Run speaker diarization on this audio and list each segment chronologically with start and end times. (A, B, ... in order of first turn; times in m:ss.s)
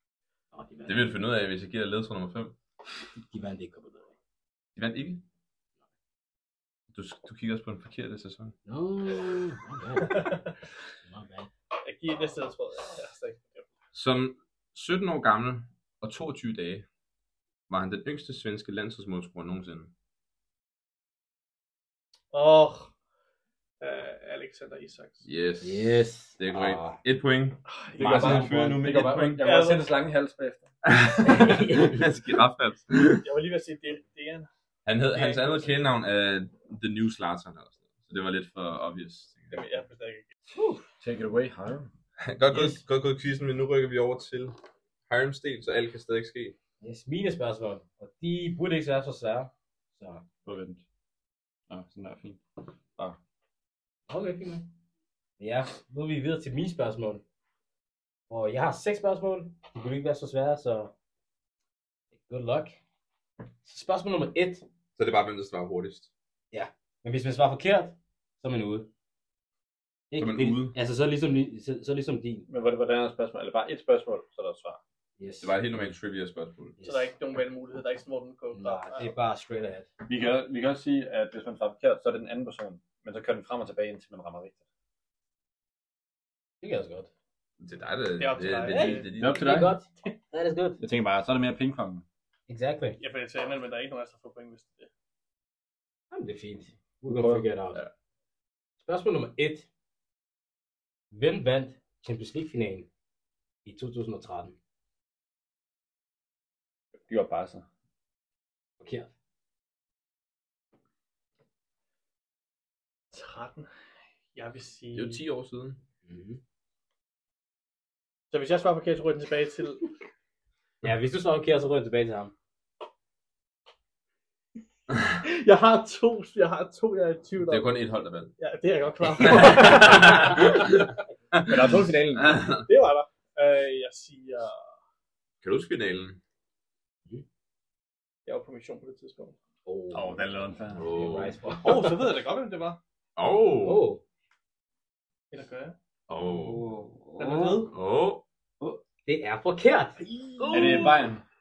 0:00.5-0:01.2 A
0:00.9-0:02.6 B
0:03.2-0:04.1 A
0:04.8-0:05.2 B
0:06.9-0:08.6 B
0:08.7-0:10.5 A
0:10.1-0:10.4 C
0:11.0-0:11.5 A
0:11.8-0:13.7 C
0:13.9-0:16.9 B
0:17.7-0:19.9 B
0:22.3-0:22.9 C
0:23.8-0:25.2 C
0:25.2-0:29.5 B
0:25.6-0:27.0 A
0:27.7-0:28.5 C
0:28.0-0:30.7 D
0:29.4-0:29.9 C
0:30.8-0:33.2 B
0:31.2-0:32.0 A
0:33.2-0:34.5 C
0:34.9-0:39.6 B
0:35.1-0:35.8 C
0:39.5-0:40.3 C
0:40.6-0:40.9 A
0:41.0-0:41.9 D
0:42.2-0:44.6 B
0:42.5-0:42.8 A
0:45.1-0:46.6 B
0:46.8-0:50.2 A
0:50.4-0:50.8 D
0:51.7-0:52.4 D
0:54.1-0:54.7 A
0:55.4-0:57.2 A
0:58.3-1:00.9 A
1:02.2-1:02.8 A
1:03.6-1:04.6 A
1:05.0-1:06.1 B
1:06.5-1:08.9 A
1:10.1-1:12.5 A
1:10.2-1:10.8 B
1:12.5-1:14.8 D
1:15.2-1:15.9 A
1:15.4-1:16.8 B
1:16.8-1:17.1 A
1:16.8-1:19.1 C
1:18.5-1:19.9 A
1:20.1-1:24.6 D
1:26.6-1:27.1 A
1:27.6-1:29.5 B
1:28.2-1:29.1 C
1:28.7-1:29.8 D
1:29.2-1:30.8 A
1:30.8-1:32.0 D
1:32.5-1:33.0 A
1:33.0-1:34.9 C
1:36.1-1:37.8 A
1:37.0-1:37.9 D
1:38.8-1:39.7 A
1:41.1-1:42.9 A
1:43.6-1:44.6 A
1:47.1-1:47.7 D
1:48.8-1:49.1 A
1:53.1-1:53.7 C
1:54.3-1:55.2 C
1:54.9-1:55.8 B
1:56.1-1:56.4 A
1:58.3-1:59.9 C
2:00.8-2:02.3 A
2:05.2-2:07.7 C
2:07.4-2:08.3 B
2:08.4-2:10.6 C
2:09.2-2:12.7 B
2:11.4-2:12.5 D
2:12.7-2:14.6 C
2:15.4-2:16.2 B
2:18.3-2:19.4 C
2:19.6-2:22.0 A
2:19.9-2:20.9 D
2:20.7-2:21.4 B
2:21.6-2:22.8 C
2:23.2-2:23.9 B
2:23.6-2:24.0 A
2:25.3-2:25.8 C
2:26.1-2:26.7 B
2:26.3-2:27.6 D
2:27.2-2:27.7 C
2:27.7-2:28.2 B
2:29.0-2:30.0 A
2:30.3-2:31.0 B
2:30.5-2:31.2 D